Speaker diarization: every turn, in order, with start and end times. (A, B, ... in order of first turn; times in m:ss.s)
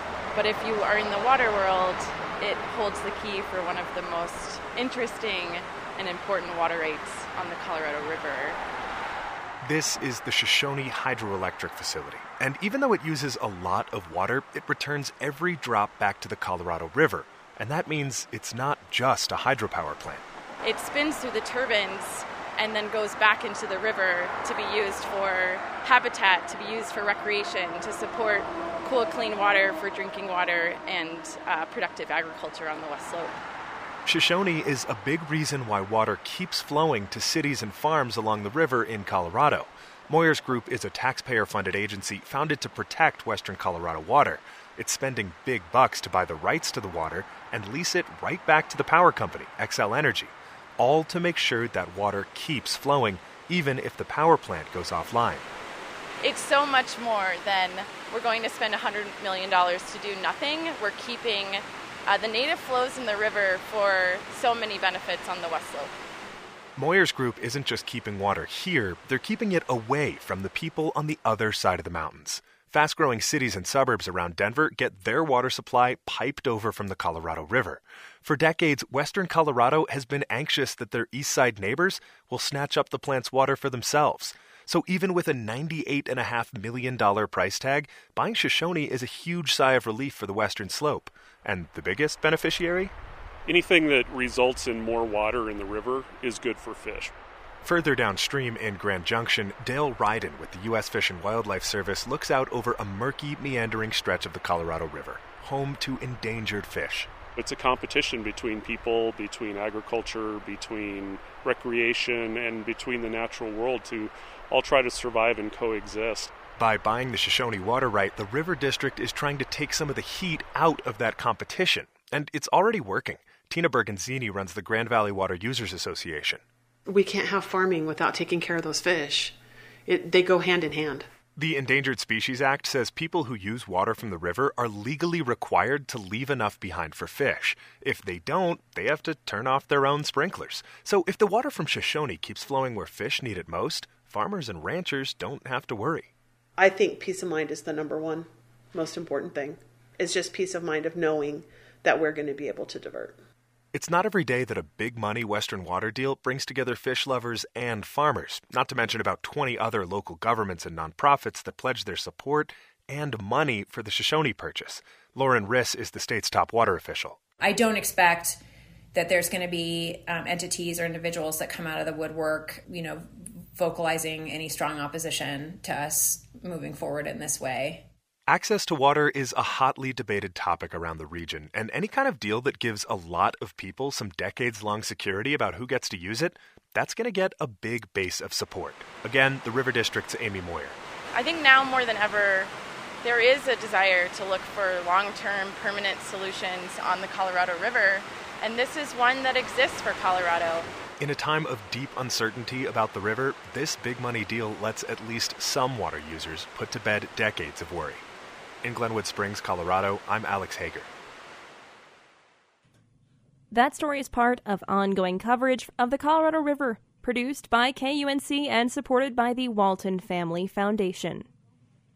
0:00.3-0:08.6 A
0:09.6-0:20.2 B
0:20.6-0:33.4 A
0:34.1-0:55.5 B
0:56.2-1:05.9 A
1:06.8-1:32.9 B
1:33.5-1:37.1 C
1:37.6-1:47.1 B
1:47.4-1:56.3 C
1:56.6-2:06.4 B
2:06.9-2:11.1 D
2:11.4-2:26.1 B
2:26.6-2:33.2 D
2:33.7-2:47.2 B
2:47.4-2:48.4 E
2:48.9-2:57.8 E
2:58.3-3:10.8 B
3:11.1-3:12.5 A
3:13.0-3:20.7 A
3:21.0-3:28.0 B
3:28.6-3:30.9 B
3:33.5-3:41.3 F